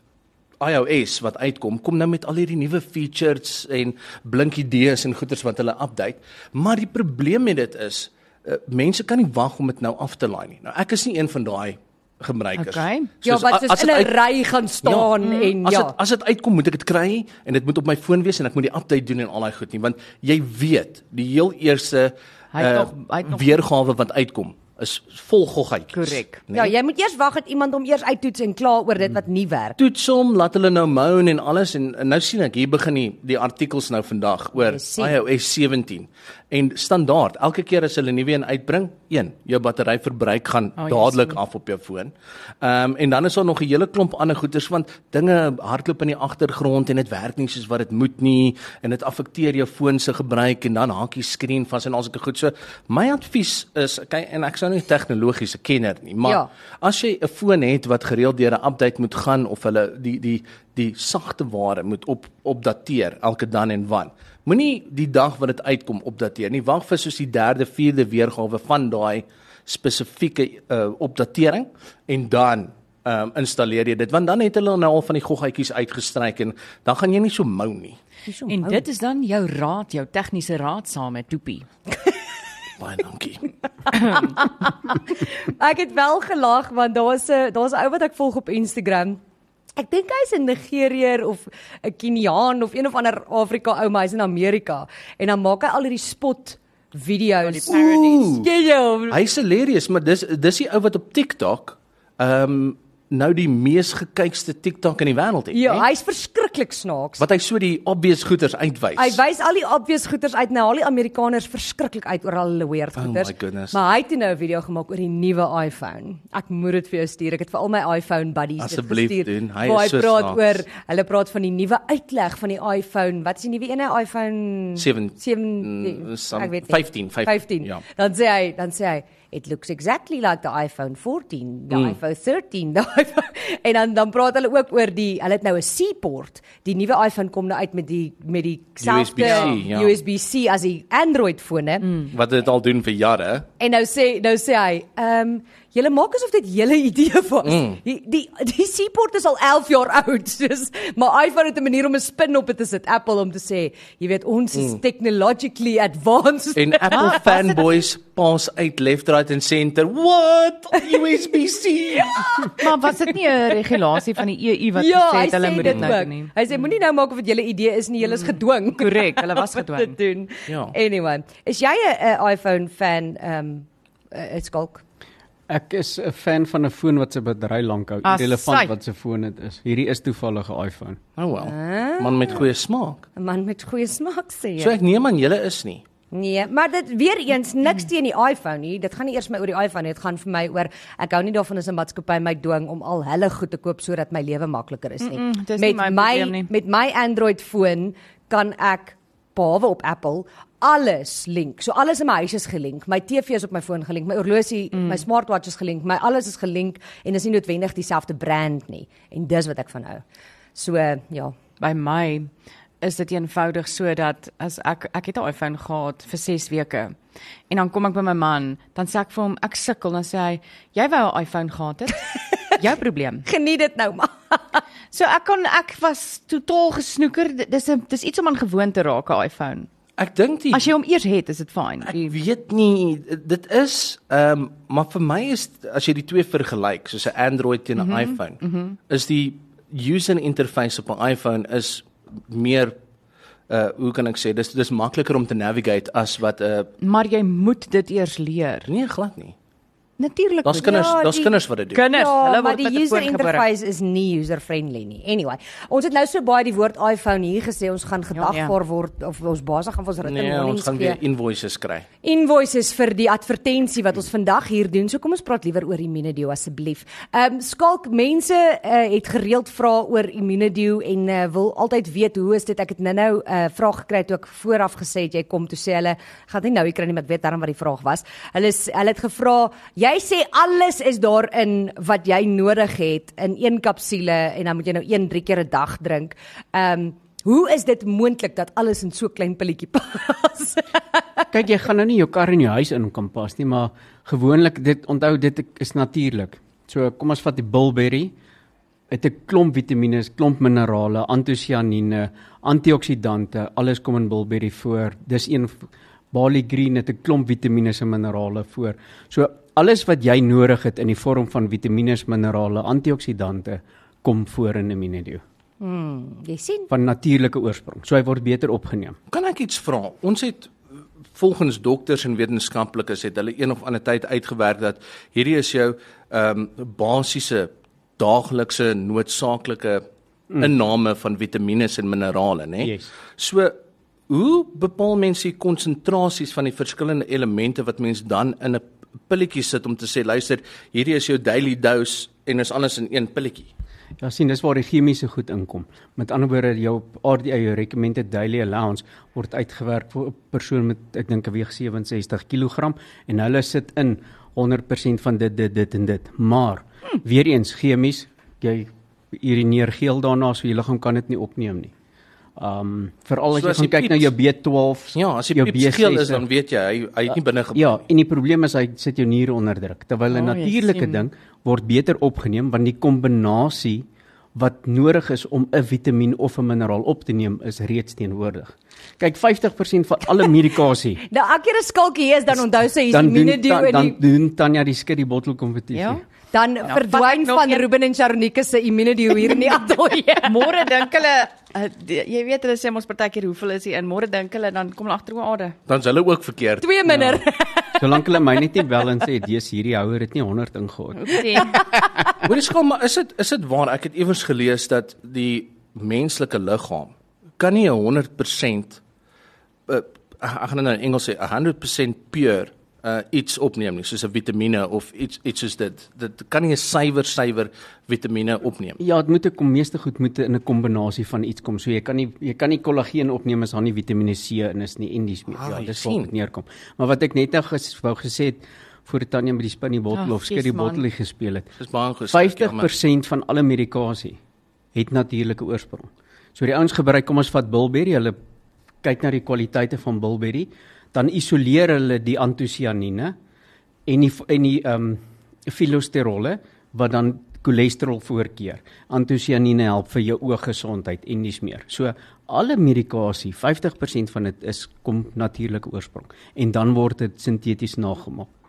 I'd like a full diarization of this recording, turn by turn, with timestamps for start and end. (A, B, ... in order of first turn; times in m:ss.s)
0:00.6-0:14.1 A
0:12.6-0:13.1 B
0:13.2-0:15.9 C
0:14.8-0:26.7 A
0:22.5-0:23.6 B
0:25.9-0:26.4 B
0:26.5-0:29.8 C
0:29.8-1:18.0 A
0:34.6-0:35.2 C
0:40.8-0:41.4 B
0:56.2-0:56.5 C
1:18.3-1:18.8 C
1:18.5-1:21.6 B
1:22.8-1:23.5 A
1:23.9-1:29.2 C
1:29.8-1:39.2 C
1:37.5-1:38.2 B
1:37.7-1:38.5 A
1:39.1-1:45.9 A
1:45.5-1:47.2 C
1:47.2-1:49.2 A
1:49.0-2:22.1 C
1:53.0-1:53.8 A
1:58.6-2:00.6 A
2:04.8-2:07.8 A
2:11.7-2:12.0 A
2:18.8-2:20.0 A
2:19.2-2:19.5 B
2:22.1-2:23.5 A
2:23.6-2:37.6 C
2:27.4-2:27.8 A
2:36.6-2:42.5 A
2:36.9-2:37.2 B
2:41.9-2:42.9 C
2:42.6-2:46.3 B
2:44.8-2:54.8 C
2:45.6-2:45.9 A
2:48.2-2:49.9 B
2:50.5-2:50.8 A
2:55.5-3:01.0 D
2:58.0-2:58.7 B
3:01.2-3:03.0 A
3:01.4-3:02.5 C
3:03.2-3:04.8 C
3:04.6-3:05.8 A
3:06.1-3:30.0 C
3:15.0-3:16.5 B
3:24.7-3:25.0 B
3:30.5-3:31.3 C
3:31.6-3:32.3 B
3:32.8-3:36.9 B
3:37.5-3:43.2 B
3:43.2-3:44.6 C
3:44.9-3:49.7 B
3:50.0-3:50.7 A
3:50.5-3:52.1 B
3:51.8-4:02.8 A
3:57.8-3:58.8 B
4:03.5-4:06.7 A
4:06.8-4:08.7 B
4:08.7-4:09.3 A
4:10.0-4:11.0 B
4:10.4-4:11.8 A
4:10.5-4:21.0 C
4:11.7-4:13.4 B
4:18.1-4:18.5 B
4:20.0-4:21.9 A
4:22.0-4:51.0 C
4:51.3-4:58.1 D
4:58.9-5:05.6 D
5:06.1-5:15.2 D
5:15.6-5:16.7 C
5:16.7-5:19.0 D
5:19.1-5:20.6 A
5:21.1-5:29.8 A
5:30.4-5:33.6 A
5:32.6-5:32.9 D
5:34.1-5:43.5 A
5:44.0-6:01.7 D
6:02.4-6:06.2 D
6:03.3-6:04.1 A
6:04.9-6:07.8 A
6:07.1-6:21.0 D
6:10.1-6:11.0 B
6:21.1-6:24.0 C
6:22.3-6:26.0 D
6:25.7-6:26.0 B
6:26.3-6:30.6 C
6:26.6-6:27.6 B
6:30.2-6:35.6 B
6:35.7-6:36.7 A
6:36.6-6:38.2 C
6:36.9-6:37.2 D
6:37.8-6:41.5 D
6:41.0-6:41.6 B
6:42.2-6:48.8 A
6:49.7-6:58.8 A
6:58.8-7:11.5 D
7:05.3-7:06.1 A
7:09.9-7:10.8 B
7:11.6-7:12.7 A
7:12.1-7:14.2 D
7:14.7-7:18.2 D
7:18.8-7:23.2 D
7:23.8-7:38.3 D